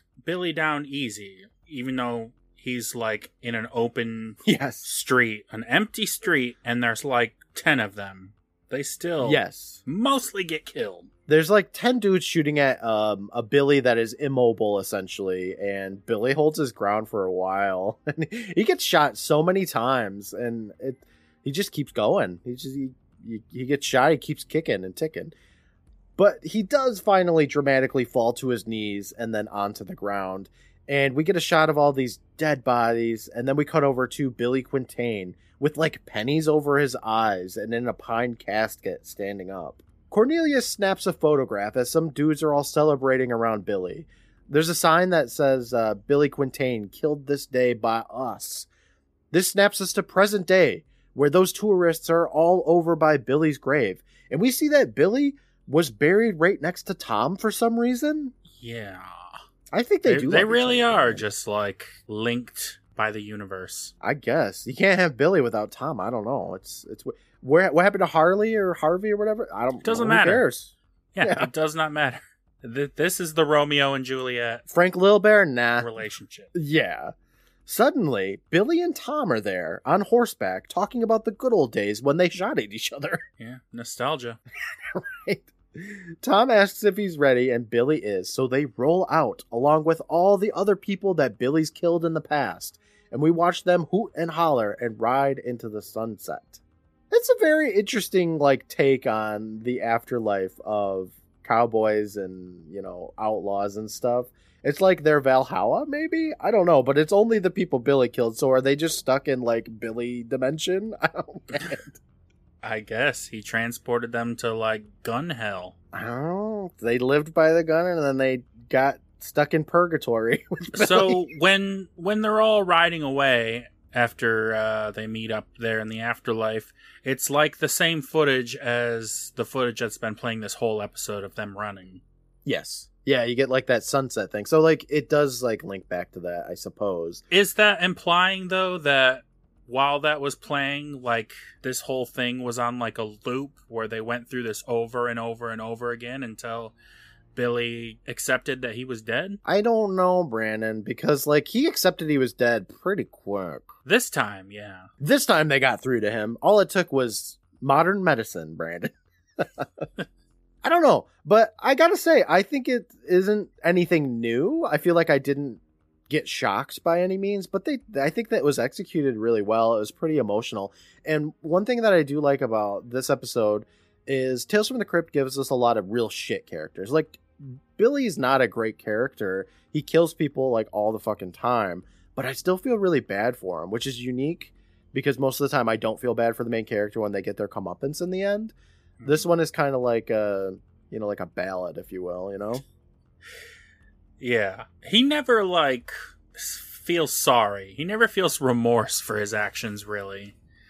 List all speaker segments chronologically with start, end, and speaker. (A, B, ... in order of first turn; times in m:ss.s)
0:00.2-0:11.1 A
0:04.4-0:04.8 B
0:09.2-0:09.8 B
0:11.3-0:25.3 B
0:26.2-0:48.7 B
0:49.3-0:58.3 B
0:58.5-0:59.4 A
0:59.7-1:01.2 B
1:00.0-1:03.9 A
1:04.0-1:11.5 B
1:09.8-1:10.4 A
1:11.1-1:14.7 A
1:14.7-1:15.9 B
1:15.8-1:16.5 A
1:16.5-1:17.1 B
1:17.6-1:23.2 B
1:23.4-1:24.4 A
1:24.7-1:52.0 B
1:52.6-1:55.8 A
1:55.9-2:01.2 B
2:00.7-2:12.0 A
2:12.4-2:17.2 B
2:17.3-2:26.7 A
2:27.3-2:29.4 A
2:29.4-2:33.7 B
2:33.8-2:34.9 A
2:35.0-2:39.8 B
2:40.6-3:08.5 B
3:09.0-3:09.2 A
3:09.0-3:12.6 B
3:14.2-3:20.3 A